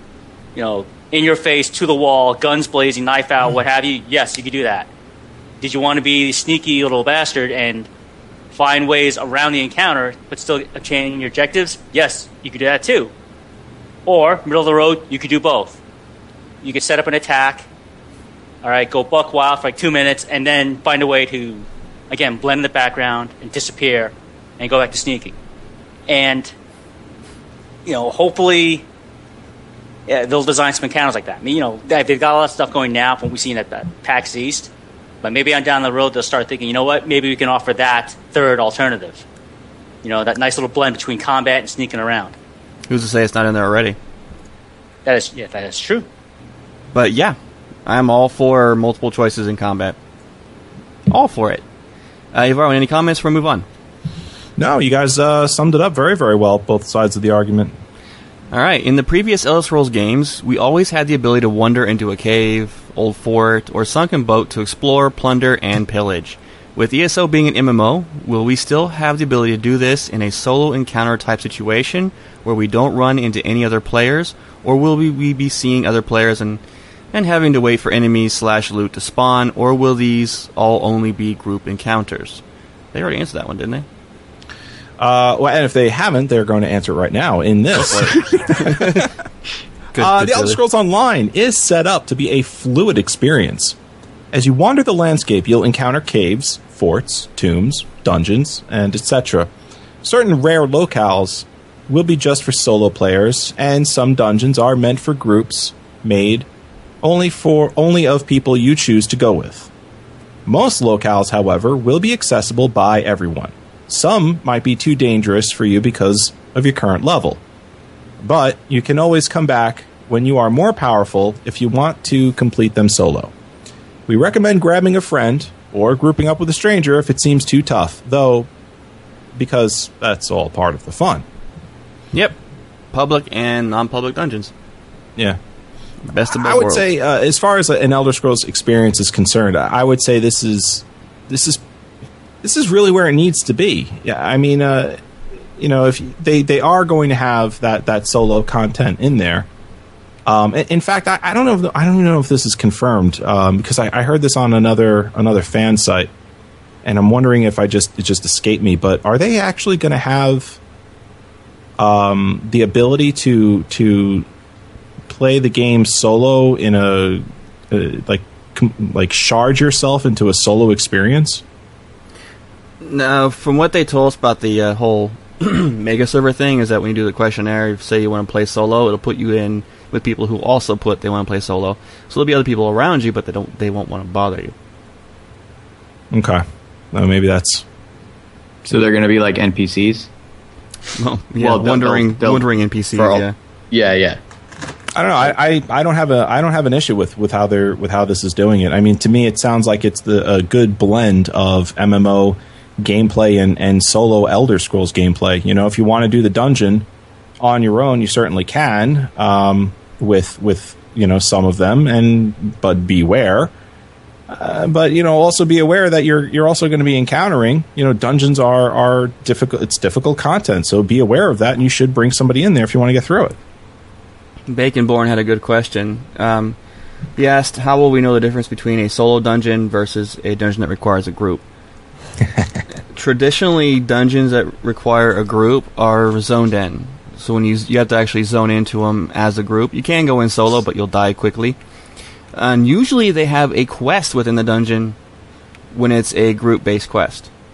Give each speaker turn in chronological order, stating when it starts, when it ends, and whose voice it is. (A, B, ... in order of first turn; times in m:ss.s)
0:00.5-0:04.9 A
0:05.6-0:07.9 A
0:08.5-0:13.1 A
0:14.0-0:15.8 A
0:16.6-0:17.7 A
0:18.6-0:25.4 A
0:26.1-0:26.5 A
0:27.8-0:28.8 A
0:30.1-0:34.7 A
0:35.2-0:39.2 A
0:40.0-0:42.4 A
0:42.9-0:44.0 B
0:45.0-0:46.1 A
0:46.9-0:50.0 B
0:51.1-0:51.6 B
0:52.3-0:53.6 B
0:54.6-0:57.8 C
0:58.5-1:16.6 B
1:17.1-1:22.4 B
1:22.9-1:23.8 B
1:25.0-1:29.1 C
1:27.7-1:29.1 B
1:29.9-1:30.6 B
1:30.0-1:33.8 C
1:34.3-1:39.5 C
1:40.0-1:46.5 C
1:47.0-1:49.7 C
1:50.4-1:57.4 C
1:58.2-2:03.3 C
2:04.1-2:08.5 C
2:09.3-2:11.2 C
2:12.9-2:14.5 B
2:16.1-2:16.9 B
2:16.3-2:21.6 C
2:22.4-2:25.0 C
2:25.6-2:29.5 C
2:30.2-2:36.1 C
2:36.8-2:40.6 C
2:41.8-2:44.3 C
2:45.1-2:51.4 C
2:52.8-3:04.5 B
3:06.1-3:07.6 C
3:08.6-3:10.1 D
3:10.9-3:13.3 B
3:11.4-3:14.2 D
3:14.9-3:26.9 C
3:27.4-3:33.5 C
3:34.3-3:43.4 C
3:44.5-3:46.6 B
3:47.2-3:51.4 B
3:52.9-4:01.6 B
4:02.3-4:05.0 B
4:05.7-4:07.3 B